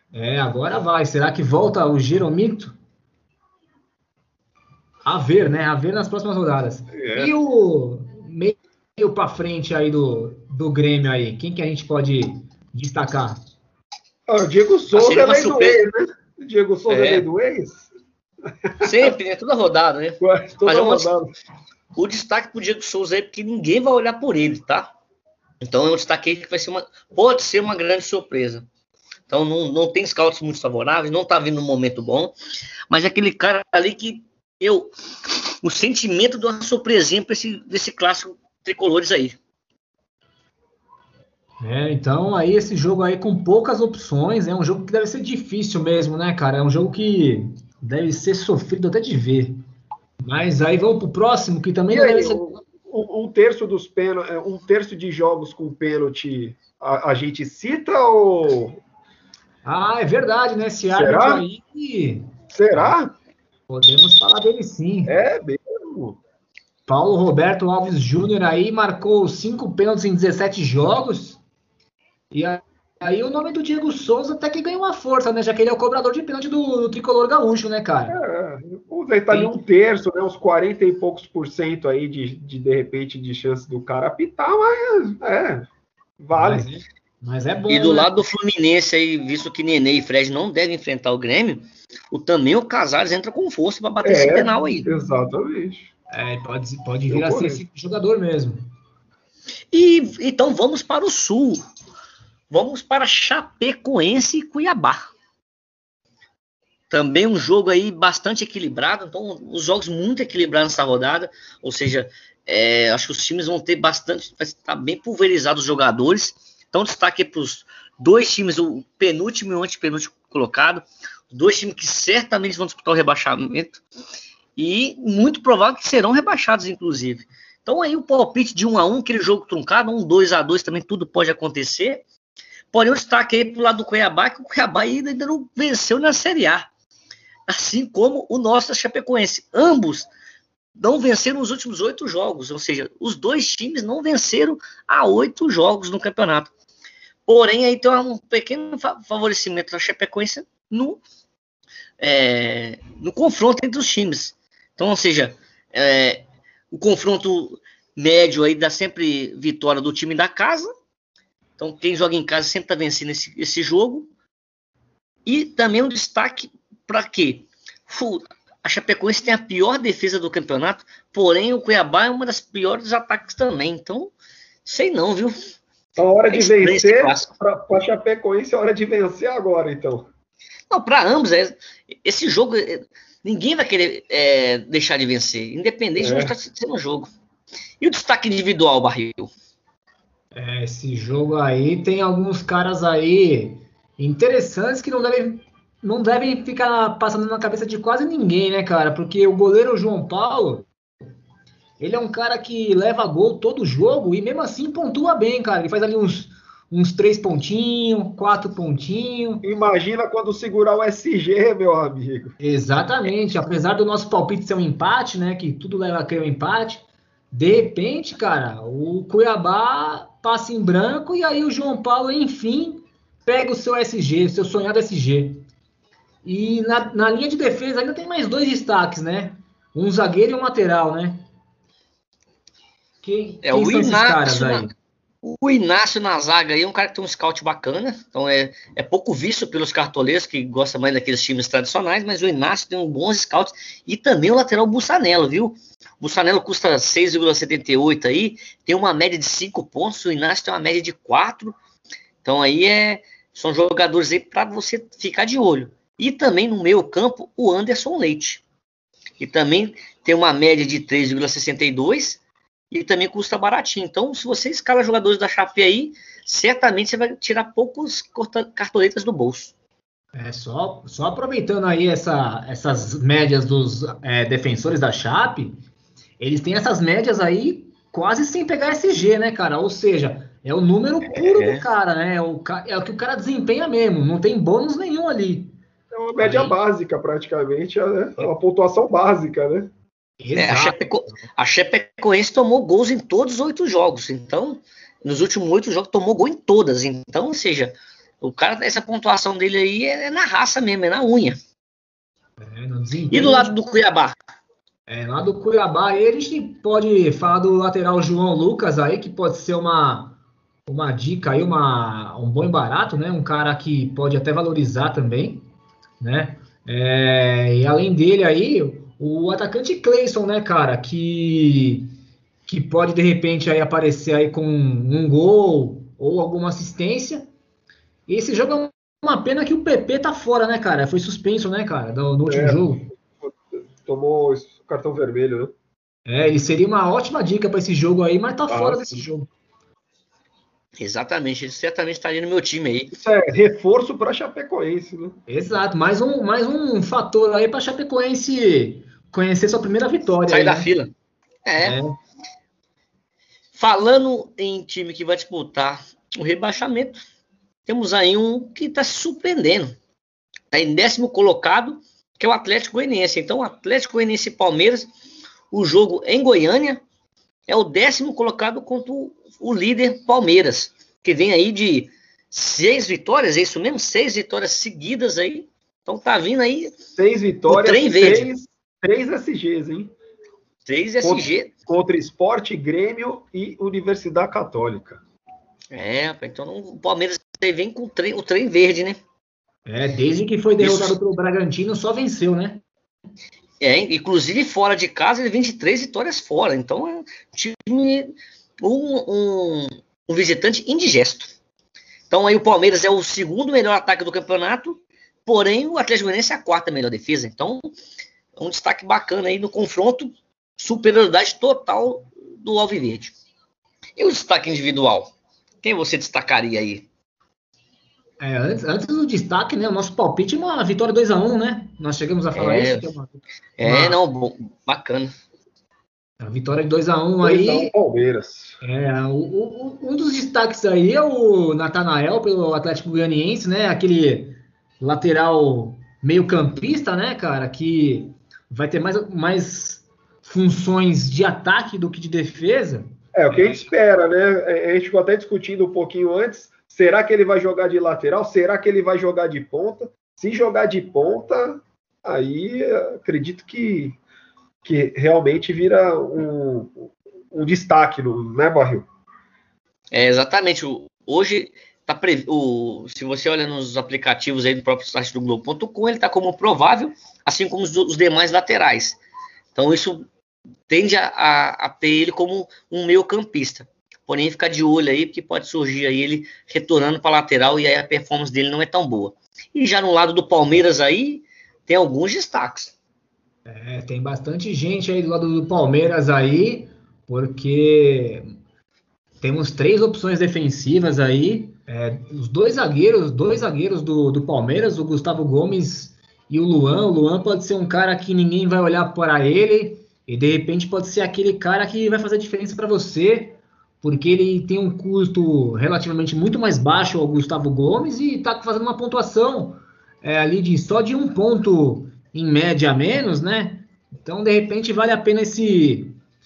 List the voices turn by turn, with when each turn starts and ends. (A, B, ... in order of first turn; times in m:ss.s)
0:00.1-0:02.7 A
0:05.0-0:13.4 A
0:06.9-0:07.3 B
0:14.3-0:17.9 B
0:14.9-0:15.8 C
0:16.9-0:17.2 C
0:18.8-0:19.1 B
0:18.8-0:21.1 C
0:20.2-0:21.2 B
0:21.9-0:24.9 C
0:25.6-0:28.6 C
0:29.3-0:32.3 C
0:32.9-0:39.4 C
0:41.6-0:49.6 A
0:50.2-0:52.6 A
0:51.9-0:58.8 B
0:59.6-1:03.0 A
1:00.9-1:01.4 B
1:02.5-1:03.1 B
1:03.7-1:05.1 A
1:05.1-1:06.2 B
1:06.9-1:11.4 A
1:12.3-1:18.2 A
1:18.1-1:25.7 B
1:26.2-1:26.7 B
1:26.3-1:28.2 A
1:27.7-1:34.9 C
1:34.0-1:35.9 B
1:36.1-1:38.6 A
1:37.1-1:37.6 B
1:39.7-1:41.6 C
1:42.5-1:45.0 C
1:46.9-2:03.8 C
2:04.6-2:12.0 C
2:12.7-2:16.7 C
2:17.5-2:20.1 C
2:20.8-2:26.5 C
2:27.2-2:31.0 C
2:32.0-2:40.7 C
2:41.6-2:44.1 C
2:45.2-2:54.1 C
2:54.6-2:55.3 C
2:56.0-3:00.1 B
2:56.3-2:57.3 C
3:00.7-3:07.1 C
3:06.0-3:06.3 B
3:07.8-3:09.3 C
3:10.3-3:20.7 A
3:21.8-3:29.4 A
3:29.4-3:32.3 B
3:32.4-3:45.4 A
3:46.2-3:51.2 A
3:53.0-3:54.7 A
3:53.4-3:54.7 C
3:55.2-4:11.5 C
4:12.2-4:18.4 C
4:19.2-4:22.2 C
4:22.7-4:29.5 C
4:30.1-4:35.6 A
4:36.2-4:45.5 A
4:41.1-4:41.6 C
4:45.9-4:49.7 B
4:46.2-4:46.6 A
4:50.2-4:50.8 A
4:50.4-5:01.4 C
5:02.4-5:03.5 A
5:03.1-5:04.2 C
5:04.9-5:15.5 A
5:16.0-5:21.9 A
5:22.4-5:27.3 A
5:28.1-5:32.9 A
5:32.3-5:32.6 B
5:33.2-5:35.5 B
5:36.0-5:39.3 A
5:38.5-5:39.0 B
5:40.8-5:42.9 C
5:42.9-5:45.2 B
5:45.3-5:50.7 A
5:50.3-5:50.9 C
5:51.4-5:51.8 C
5:51.6-5:52.0 A
5:53.5-5:57.0 C
5:57.6-5:59.8 C
6:00.5-6:04.9 C
6:05.5-6:06.8 C
6:07.5-6:16.7 C
6:16.9-6:19.9 B
6:17.5-6:18.3 C
6:20.6-6:21.5 C
6:21.0-6:25.0 B
6:25.7-6:29.0 C
6:29.7-6:32.6 A
6:30.6-6:31.0 C
6:33.6-6:41.3 C
6:42.1-6:47.6 C
6:48.4-6:53.1 C
6:54.0-6:56.8 C
6:58.2-7:04.0 A
7:02.3-7:02.9 C
7:03.6-7:05.1 C
7:06.2-7:07.7 A
7:07.2-7:08.6 B
7:08.6-7:23.7 A
7:23.1-7:34.0 B
7:34.6-7:38.9 B
7:39.9-7:49.0 C
7:49.5-7:50.1 C
7:50.7-8:02.7 C
8:03.4-8:08.3 A
8:09.2-8:36.0 A